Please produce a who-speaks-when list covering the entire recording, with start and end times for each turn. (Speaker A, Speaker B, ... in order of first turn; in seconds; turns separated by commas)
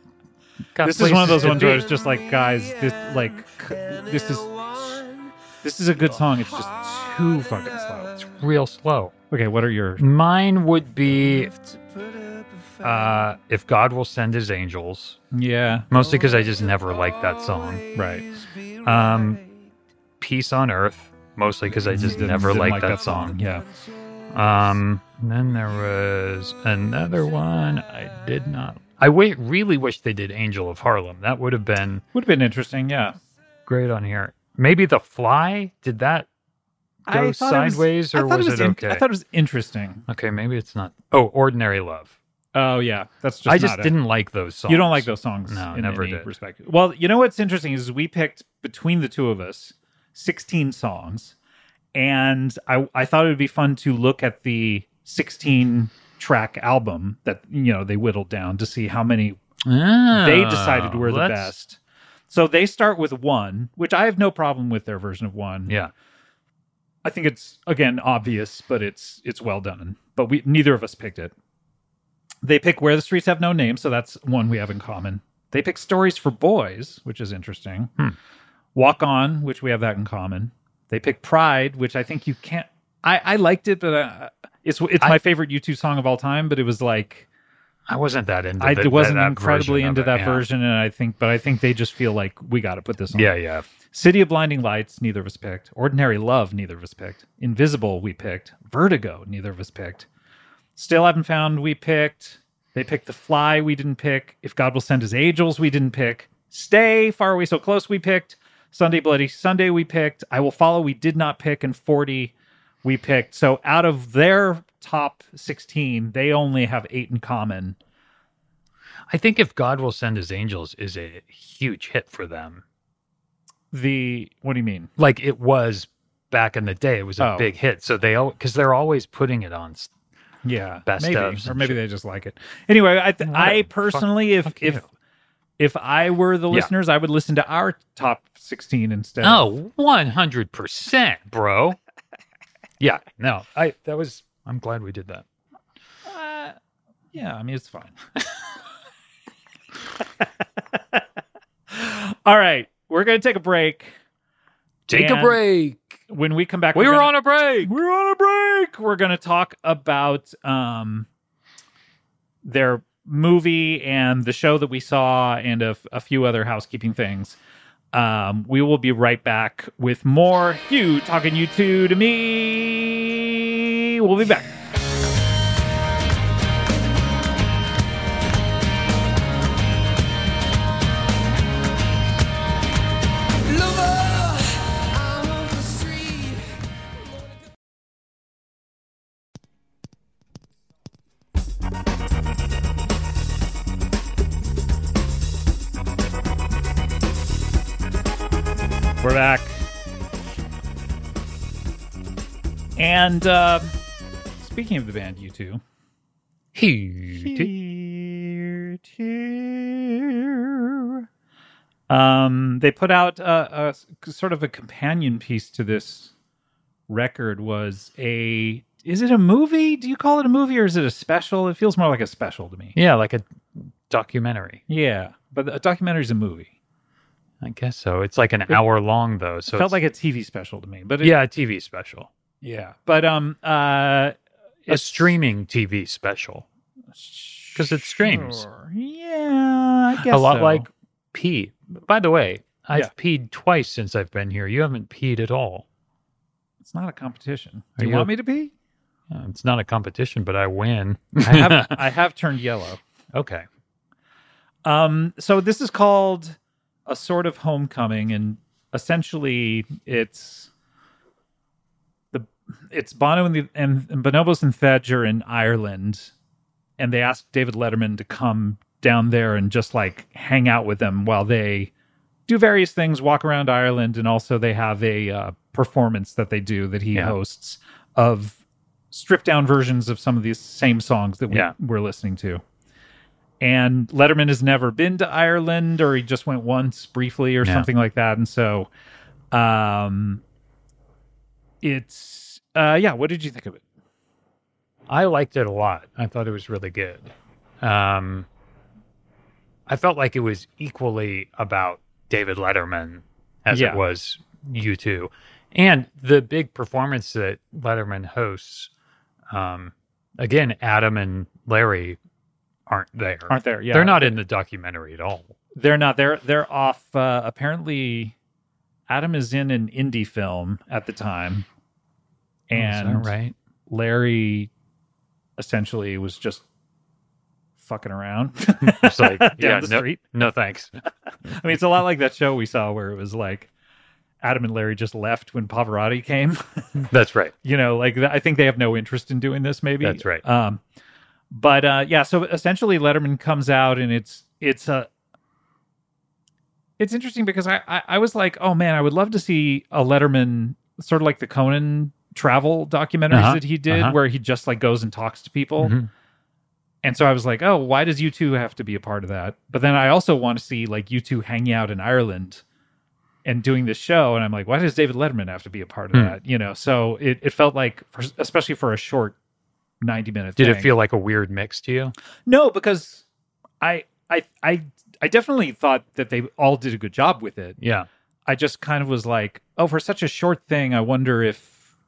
Speaker A: 0.8-1.9, Speaker B: 0.8-5.0, Speaker C: 1.4-5.4, Speaker B: 5.6-8.1, Speaker C: 6.1-8.3, Speaker A: 8.2-9.1, Speaker B: 9.3-10.1, Speaker A: 10.0-11.5, Speaker C: 11.1-13.3, Speaker A: 12.8-15.2, Speaker B: 15.3-15.9, Speaker A: 15.9-17.8, Speaker C: 15.9-19.7, Speaker B: 17.9-18.2, Speaker A: 18.8-19.4, Speaker A: 20.2-23.4, Speaker B: 21.7-23.7, Speaker C: 22.7-24.4, Speaker A: 24.3-32.0, Speaker B: 32.1-33.2, Speaker A: 33.7-36.3, Speaker A: 37.1-39.0, Speaker B: 37.1-40.1, Speaker A: 40.1-42.1, Speaker B: 42.5-43.9, Speaker A: 43.5-46.3, Speaker B: 44.7-51.4, Speaker B: 52.0-59.4, Speaker A: 59.6-61.5, Speaker B: 60.1-65.7, Speaker A: 65.7-65.9, Speaker B: 67.0-71.3, Speaker B: 72.4-77.9, Speaker B: 78.7-87.3, Speaker A: 87.9-90.5, Speaker B: 88.6-93.3, Speaker A: 93.1-93.7, Speaker B: 93.9-100.1, Speaker B: 100.8-112.3, Speaker B: 112.8-117.8, Speaker A: 119.1-122.6, Speaker B: 123.7-124.9, Speaker A: 125.0-129.9, Speaker B: 127.2-127.5, Speaker B: 130.4-134.9, Speaker A: 130.9-131.8, Speaker A: 133.2-134.8, Speaker B: 135.6-139.5, Speaker A: 139.2-141.8, Speaker A: 142.8-145.2, Speaker B: 146.1-146.6, Speaker B: 147.1-147.9, Speaker B: 151.7-153.9, Speaker A: 154.9-156.0, Speaker B: 154.9-155.4, Speaker B: 156.1-161.1, Speaker A: 156.7-157.7, Speaker B: 162.4-167.4, Speaker B: 167.9-174.5, Speaker C: 183.4-186.6, Speaker B: 199.0-199.6, Speaker B: 202.8-203.7, Speaker B: 204.4-205.6, Speaker A: 206.5-207.5, Speaker B: 207.2-211.1, Speaker B: 211.9-216.1, Speaker B: 216.9-222.7, Speaker A: 222.7-224.6, Speaker B: 224.7-226.5, Speaker A: 227.4-229.8, Speaker B: 229.5-231.2, Speaker A: 231.0-232.1, Speaker B: 232.4-235.2, Speaker A: 234.7-236.4, Speaker B: 236.9-240.7, Speaker A: 237.6-238.4, Speaker A: 240.0-245.7, Speaker B: 246.6-248.5, Speaker A: 247.8-248.1, Speaker A: 249.1-251.8, Speaker B: 251.2-252.8, Speaker A: 253.1-253.4, Speaker B: 254.7-260.5, Speaker B: 262.1-266.1, Speaker B: 266.8-271.7, Speaker B: 272.3-278.4, Speaker B: 278.9-282.4, Speaker B: 283.4-288.7, Speaker A: 287.4-287.7, Speaker B: 289.3-290.2, Speaker B: 291.6-293.6, Speaker A: 294.9-298.3, Speaker A: 299.7-308.7, Speaker B: 303.5-303.8, Speaker A: 309.3-312.0, Speaker A: 312.7-315.4, Speaker B: 313.3-314.2, Speaker B: 315.6-318.1, Speaker B: 318.9-321.4, Speaker B: 322.5-323.1, Speaker A: 322.5-323.4, Speaker B: 323.7-324.5, Speaker B: 325.4-326.4, Speaker B: 327.6-330.0, Speaker A: 328.6-330.7, Speaker B: 331.3-333.5, Speaker B: 334.2-336.9, Speaker A: 336.9-337.3, Speaker B: 337.4-340.6, Speaker A: 339.8-340.2, Speaker B: 341.3-344.9, Speaker B: 346.8-355.8, Speaker A: 353.1-354.0, Speaker A: 355.6-355.9, Speaker B: 356.8-362.4, Speaker B: 363.2-369.2, Speaker B: 369.8-370.7, Speaker A: 370.4-371.9, Speaker B: 372.3-373.1, Speaker B: 373.6-377.6, Speaker A: 377.6-377.9, Speaker B: 378.3-381.6